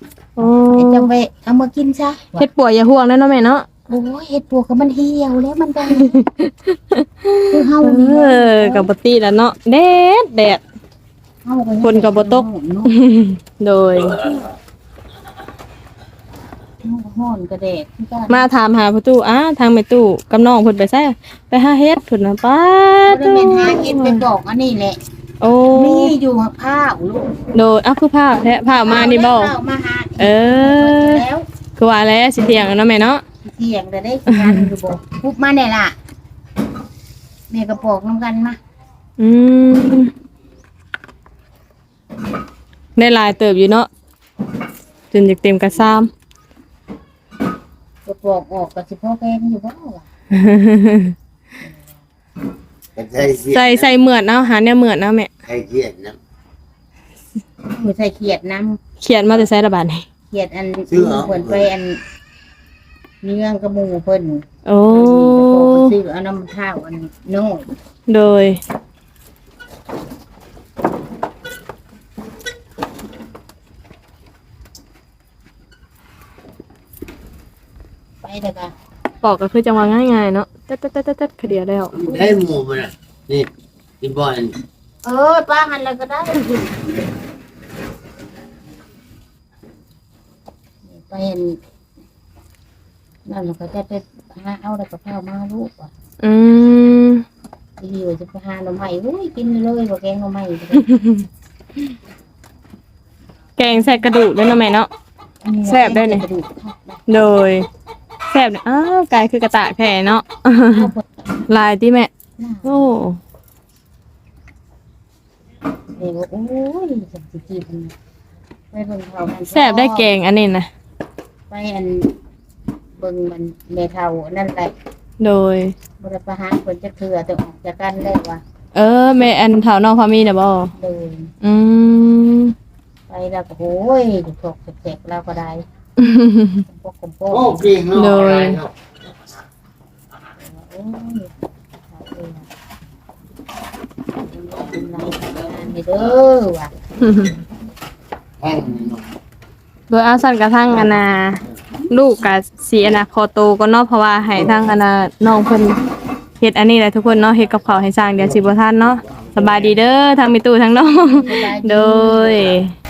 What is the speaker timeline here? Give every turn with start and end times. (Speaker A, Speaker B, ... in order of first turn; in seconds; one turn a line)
Speaker A: 0.4-1.1
Speaker B: 0.4-2.5
Speaker A: 2.4-3.7
Speaker B: 3.9-6.2
Speaker A: 5.9-10.6
Speaker B: 7.5-8.9
Speaker B: 11.4-12.9
Speaker A: 11.8-14.3
Speaker B: 16.8-18.5
Speaker A: 18.3-24.2
Speaker B: 23.1-25.0
Speaker A: 25.4-26.1
Speaker B: 25.7-27.3
Speaker A: 27.5-29.5
Speaker B: 28.8-31.5
Speaker A: 30.2-31.2
Speaker A: 31.8-33.2
Speaker B: 33.4-36.0
Speaker A: 34.3-34.7
Speaker B: 37.5-38.6
Speaker A: 39.2-40.1
Speaker A: 43.0-43.9
Speaker A: 45.1-46.1
Speaker B: 48.0-50.0
Speaker A: 50.3-51.1
Speaker C: 53.0-53.9
Speaker A: 53.5-55.3
Speaker C: 55.4-56.2
Speaker B: 57.7-58.8
Speaker A: 59.0-60.0
Speaker B: 60.3-62.0
Speaker C: 60.9-61.7
Speaker B: 63.2-67.7
Speaker A: 64.7-65.9
Speaker A: 68.1-68.6
Speaker B: 78.2-78.7
Speaker A: 79.2-81.9
Speaker C: 81.9-83.5
Speaker B: 82.0-82.4
Speaker C: 84.0-84.5
Speaker B: 85.0-86.8
Speaker B: 90.9-91.6
Speaker B: 93.2-95.9
Speaker A: 96.2-97.2
Speaker B: 97.8-100.8
Speaker A: 100.7-101.2
Speaker A: 103.6-104.9
Speaker B: 105.4-107.0
Speaker A: 105.6-106.2
Speaker A: 107.1-107.7
Speaker A: 108.3-110.9
Speaker B: 110.7-111.0
Speaker A: 111.5-112.1
Speaker B: 112.4-112.9
Speaker A: 112.6-113.2
Speaker B: 116.0-117.9
Speaker B: 118.7-120.1
Speaker A: 119.5-120.7
Speaker B: 121.5-122.1
Speaker B: 123.0-124.7
Speaker A: 125.2-125.7
Speaker B: 126.0-128.4
Speaker A: 128.7-130.7
Speaker B: 130.8-131.3
Speaker A: 131.4-132.5
Speaker B: 133.1-135.6
Speaker A: 136.0-136.6
Speaker B: 136.7-137.8
Speaker C: 137.3-138.9
Speaker A: 137.9-138.6
Speaker B: 140.4-141.3
Speaker B: 141.9-142.5
Speaker B: 144.3-146.7
Speaker A: 147.0-147.4
Speaker C: 148.4-149.0
Speaker A: 149.9-155.8
Speaker A: 156.4-162.7
Speaker B: 161.2-162.6